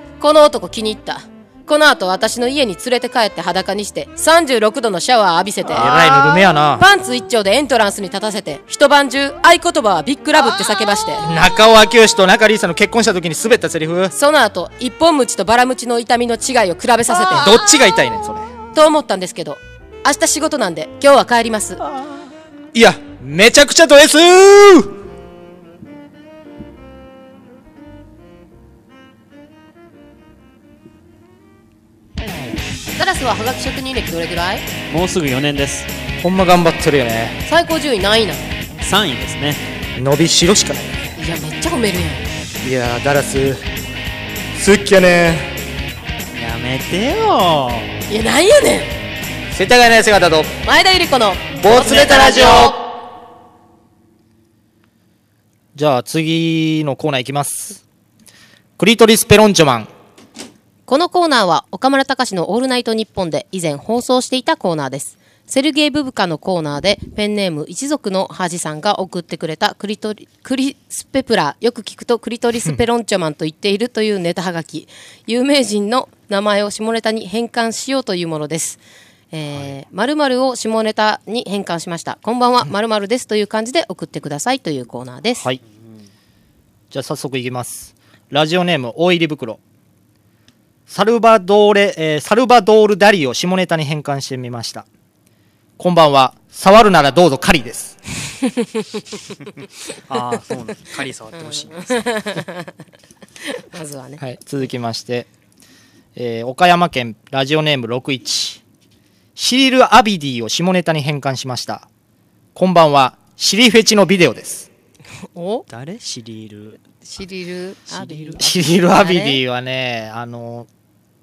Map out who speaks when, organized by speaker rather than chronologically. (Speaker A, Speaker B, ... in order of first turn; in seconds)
Speaker A: 0.2-11.3, 14.1-17.6, 18.7-21.8, 32.9-34.6, 37.5-38.4, 41.2-42.2, 48.1-49.0, 50.6-52.8, 60.9-78.8, 79.3-85.5, 98.5-98.8, 101.3-102.8, 103.4-104.2, 115.3-115.7, 117.1-119.4
Speaker B: 5.7-6.8, 11.2-14.1, 17.3-18.5, 22.7-25.0, 36.2-37.4, 40.0-40.9, 42.6-43.6, 44.5-45.5, 49.5-50.5, 51.5-52.8, 55.8-57.8, 58.8-59.9, 86.9-89.6, 90.9-94.9, 95.8-98.0, 104.2-105.3, 106.2-108.6, 109.4-111.9, 112.5-114.7, 118.4-120.7
Speaker C: 34.9-35.9, 38.8-39.6, 46.3-48.0, 100.1-102.1, 115.7-116.8, 117.9-118.6